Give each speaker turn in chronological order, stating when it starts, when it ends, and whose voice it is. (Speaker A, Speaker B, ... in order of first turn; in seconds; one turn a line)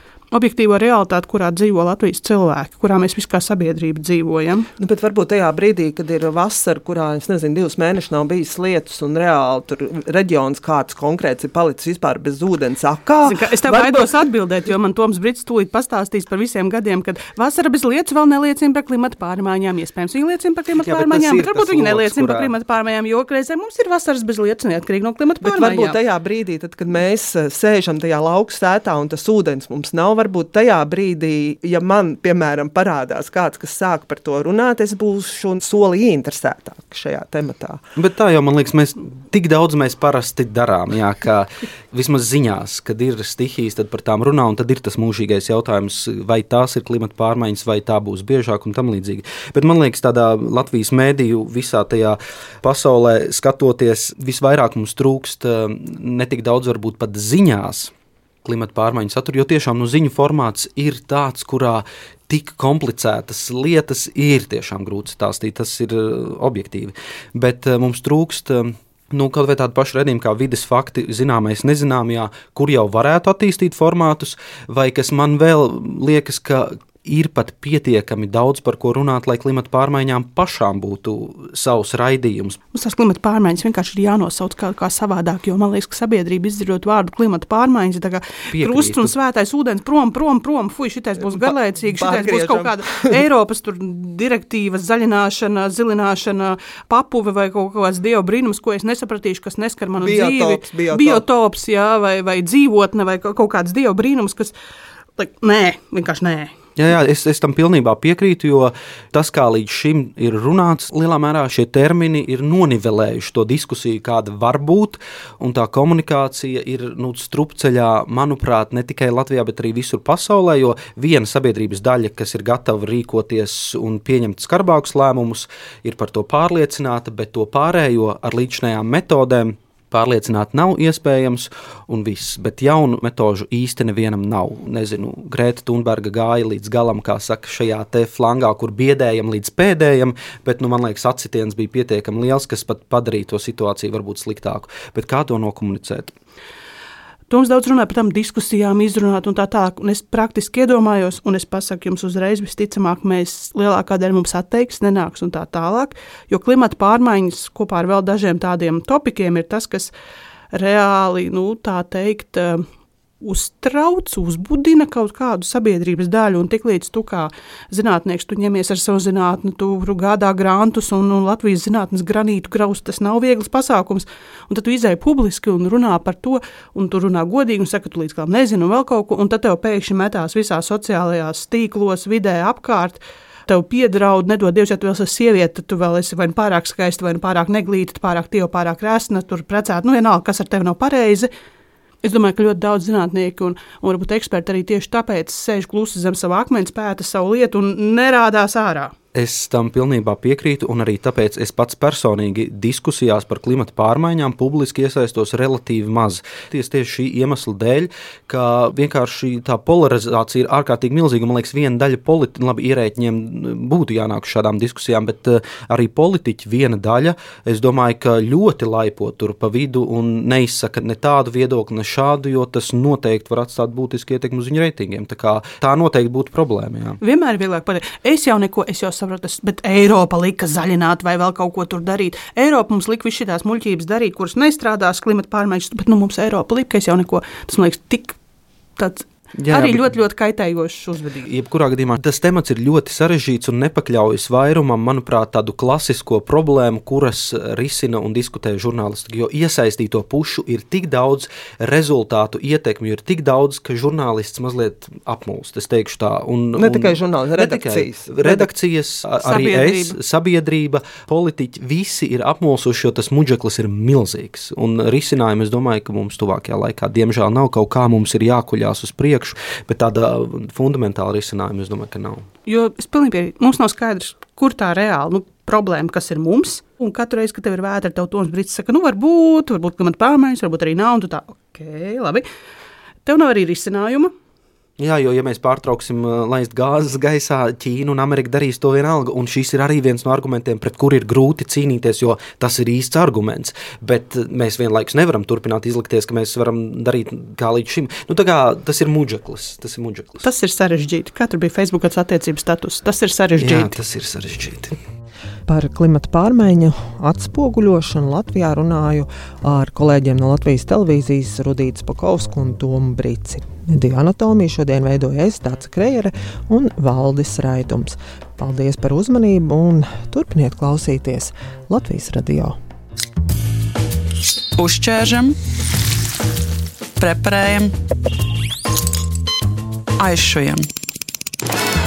Speaker A: 0.3-4.7
Speaker B: 4.8-14.1
Speaker A: 13.2-26.0
Speaker C: 20.8-22.5
Speaker B: 25.4-37.8
Speaker C: 38.0-57.9
Speaker C: 58.4-82.6
Speaker A: 82.7-104.5
Speaker C: 88.5-89.1
Speaker B: 91.3-93.2
Speaker B: 100.0-101.2
Speaker A: 105.2-106.5
Speaker C: 106.8-146.1
Speaker A: 147.3-159.9
Speaker A: 160.5-162.6
Speaker A: 163.2-191.3
Speaker A: 192.0-198.9
Speaker C: 199.2-227.0
Speaker A: 227.0-238.2
Speaker A: 238.8-241.3
Speaker C: 239.4-239.9
Speaker C: 241.2-272.3
Speaker B: 256.6-258.5
Speaker A: 259.2-260.0
Speaker A: 272.5-282.3
Speaker A: 283.0-284.1
Speaker C: 284.8-300.2
Speaker A: 300.2-303.8
Speaker C: 303.4-304.8
Speaker D: 305.5-322.6
Speaker E: 324.6-325.4
Speaker E: 327.0-327.7
Speaker E: 330.0-330.7